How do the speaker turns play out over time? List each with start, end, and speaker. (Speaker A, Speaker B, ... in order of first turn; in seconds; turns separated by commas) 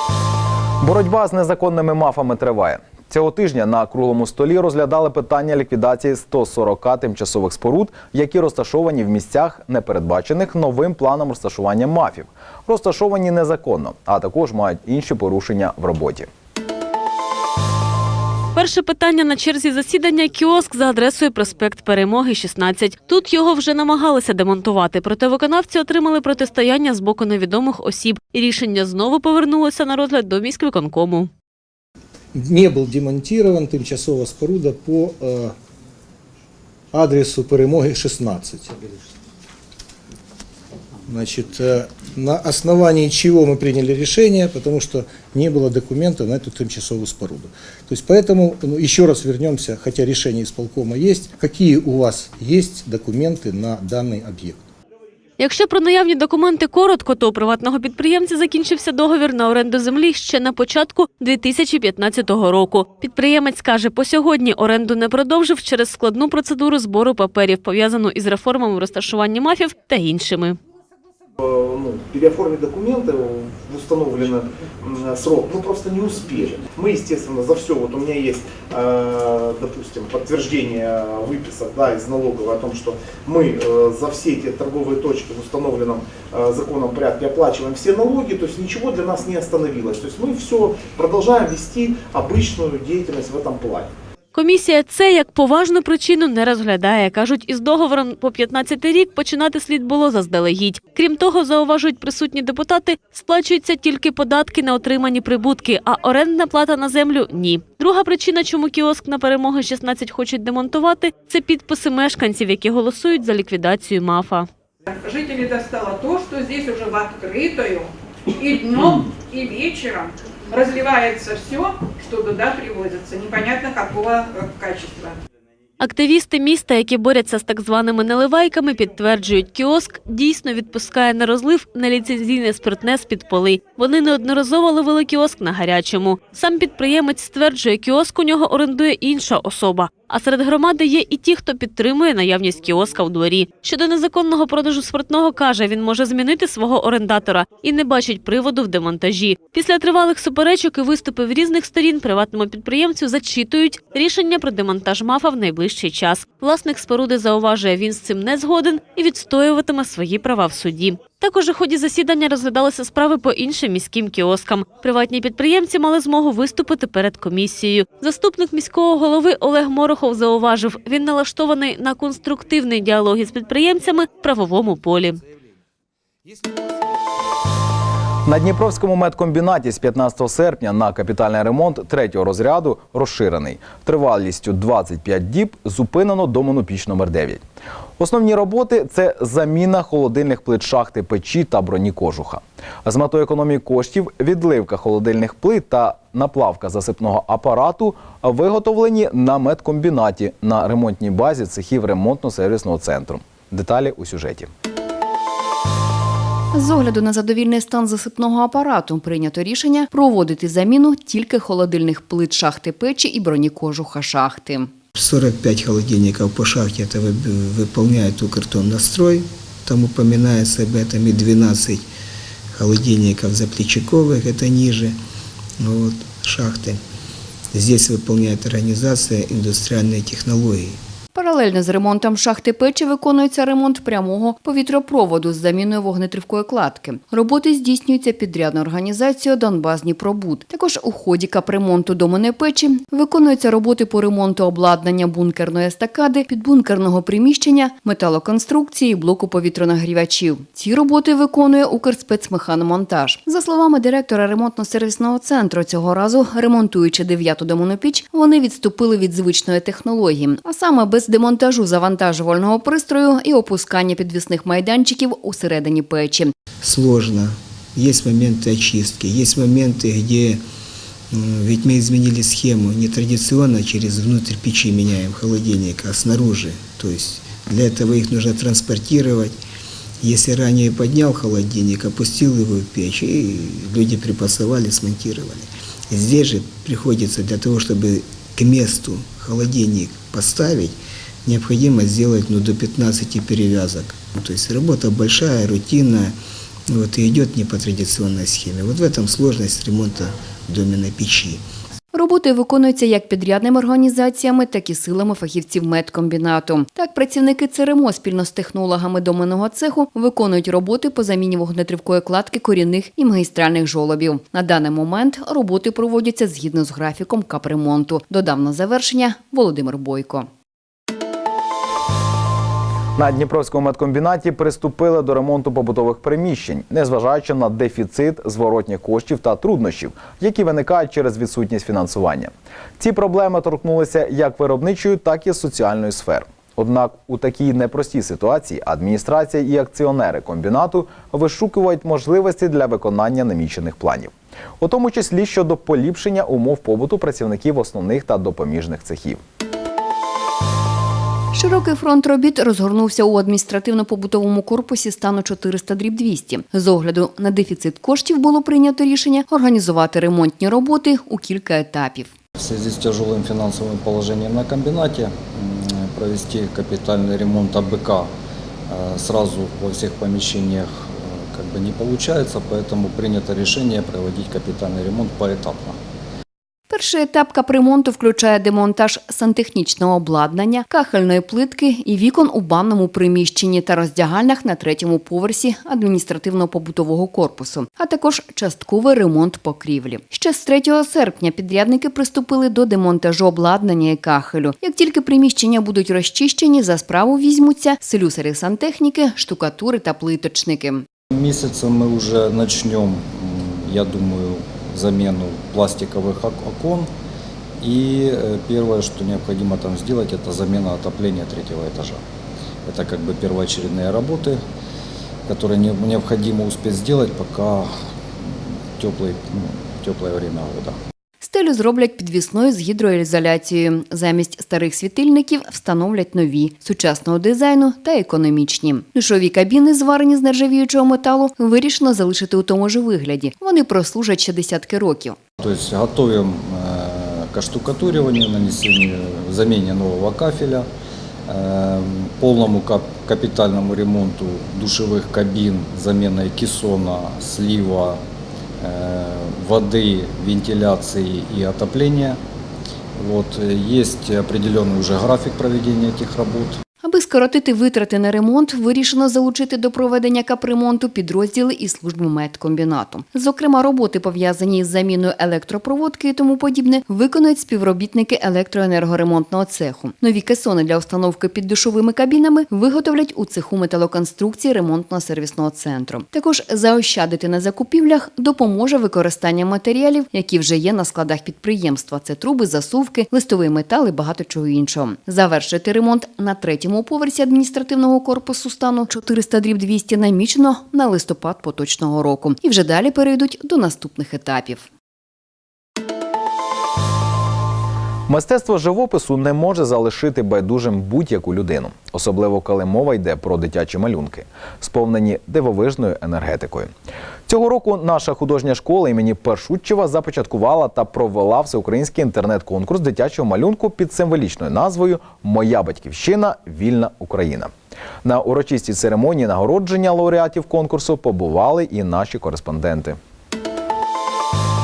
Speaker A: 0.8-16.3, Speaker B: 18.5-31.3, Speaker C: 32.3-35.5, Speaker C: 36.9-39.1, Speaker C: 41.0-54.6, Speaker B: 55.4-70.6, Speaker D: 71.4-93.9, Speaker B: 94.3-114.5, Speaker E: 114.8-125.2, Speaker B: 125.8-175.2, Speaker A: 178.2-187.4, Speaker A: 188.0-204.5, Speaker F: 206.5-214.7, Speaker G: 214.9-221.8, Speaker G: 222.5-225.0, Speaker G: 225.6-226.8, Speaker G: 227.5-230.8, Speaker F: 231.1-266.3, Speaker G: 266.6-270.4, Speaker G: 271.1-279.4, Speaker G: 280.0-296.1, Speaker G: 296.7-301.4, Speaker F: 301.9-320.3, Speaker A: 322.9-349.2, Speaker F: 351.3-362.1, Speaker H: 362.4-368.1, Speaker H: 368.7-375.8, Speaker F: 376.7-400.9, Speaker H: 401.1-406.9, Speaker H: 407.6-412.0, Speaker H: 412.6-414.4, Speaker H: 415.3-420.8, Speaker F: 421.2-435.2, Speaker H: 435.4-440.7, Speaker H: 441.3-448.0, Speaker H: 448.6-452.2, Speaker H: 452.9-456.6, Speaker F: 456.8-494.7, Speaker A: 498.1-506.7, Speaker A: 507.3-517.5, Speaker A: 518.0-523.0